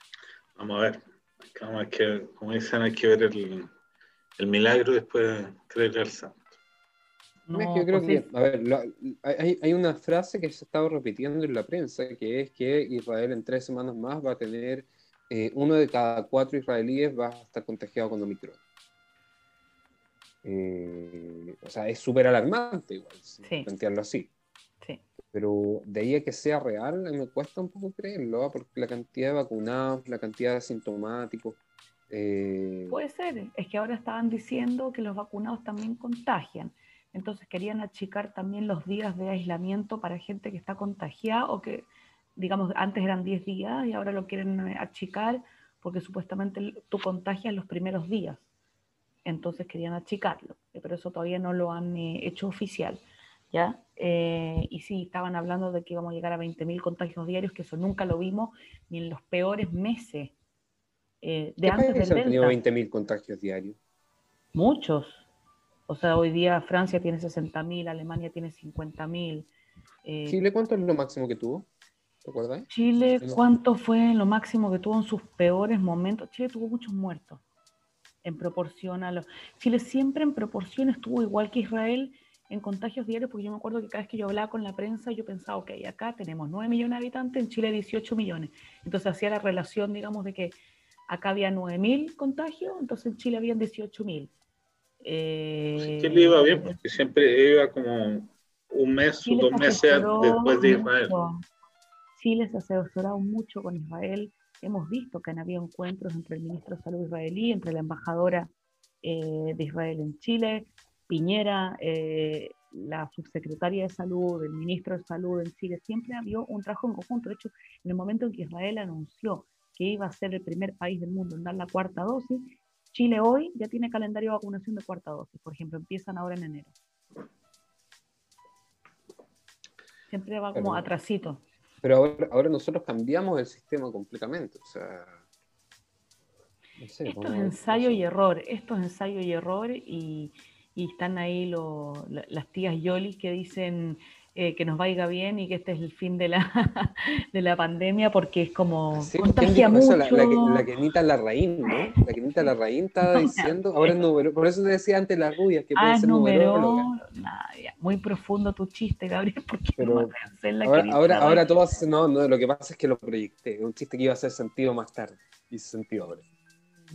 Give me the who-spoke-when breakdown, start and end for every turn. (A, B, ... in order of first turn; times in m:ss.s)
0:00.6-0:03.7 A
0:04.4-0:06.5 A
0:07.5-0:08.2 B
0:07.5-0:18.6 C
0:20.4-0:24.3 C
0:23.4-0:23.7 B
0:25.3-0:31.6 C
0:32.1-0:33.0 C
0:32.9-0:48.4 B
0:49.2-1:00.3 B
1:01.2-1:02.6 B
1:01.6-1:03.8 C
1:04.5-1:05.2 B
1:05.9-1:09.5 B
1:10.0-1:10.4 B
1:10.3-1:11.7 C
1:12.2-1:12.7 C
1:12.7-1:17.4 B
1:18.2-1:30.6 B
1:31.1-1:34.3 B
1:35.0-1:36.8 B
1:35.8-1:41.2 A
1:39.2-1:41.4 B
1:42.2-1:48.5 B
1:49.0-2:06.7 B
2:10.1-2:11.4 B
2:10.5-2:10.8 C
2:11.8-2:15.2 C
2:16.8-2:18.1 C
2:17.0-2:30.6 B
2:29.0-2:36.9 C
2:33.1-2:33.9 B
2:35.8-2:41.4 B
2:39.8-2:40.1 C
2:40.6-2:46.2 C